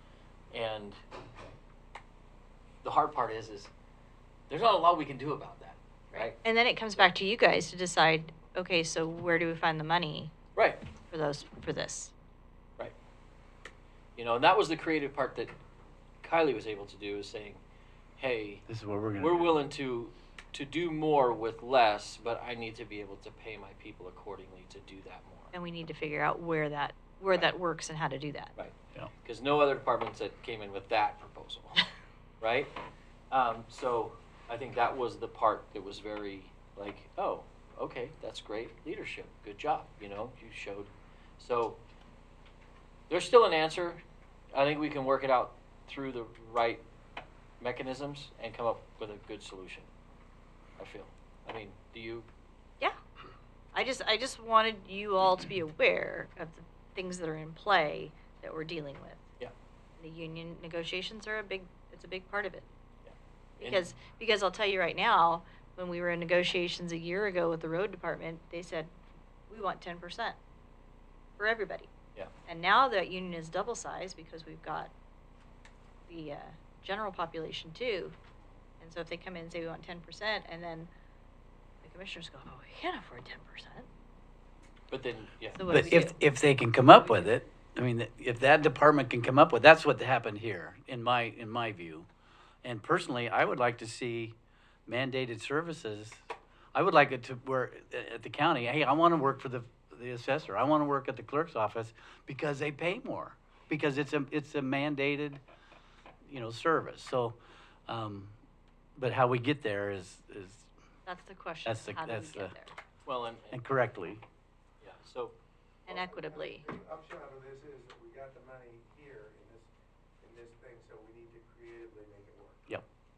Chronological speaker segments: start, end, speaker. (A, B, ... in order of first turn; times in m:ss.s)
0:00.5-0:01.0 A
0:02.8-0:03.7 A
0:04.5-0:06.4 A
0:06.1-0:10.3 B
0:10.5-0:10.8 A
0:11.1-0:12.1 B
0:14.2-0:15.5 A
0:16.2-0:17.6 A
0:18.2-0:18.6 A
0:18.7-0:19.6 C
0:19.2-0:25.5 A
0:25.5-0:28.5 B
0:28.6-0:31.9 A
0:32.4-0:32.7 A
0:33.3-0:41.8 A
0:43.1-0:44.0 A
0:44.5-0:46.8 A
0:47.6-0:49.9 A
0:50.8-0:52.3 A
0:53.7-0:59.2 B
1:00.0-1:02.7 B
1:03.0-1:03.9 A
1:03.6-1:08.9 B
1:09.5-1:10.4 B
1:11.4-1:11.9 B
1:12.5-1:14.9 B
1:16.1-1:18.2 B
1:18.8-1:20.9 B
1:21.8-1:23.9 B
1:24.9-1:25.6 A
1:25.5-1:26.2 B
1:25.7-1:32.1 C
1:26.9-1:27.3 B
1:32.6-1:34.4 C
1:34.9-1:36.2 C
1:36.7-1:45.4 C
1:46.2-1:48.4 C
1:49.0-1:50.7 C
1:51.0-1:52.7 B
1:51.6-1:52.6 C
1:53.0-1:53.6 A
1:53.5-1:54.2 C
1:54.8-1:55.4 A
1:55.8-1:56.7 B
1:55.8-1:59.7 D
2:00.2-2:02.7 D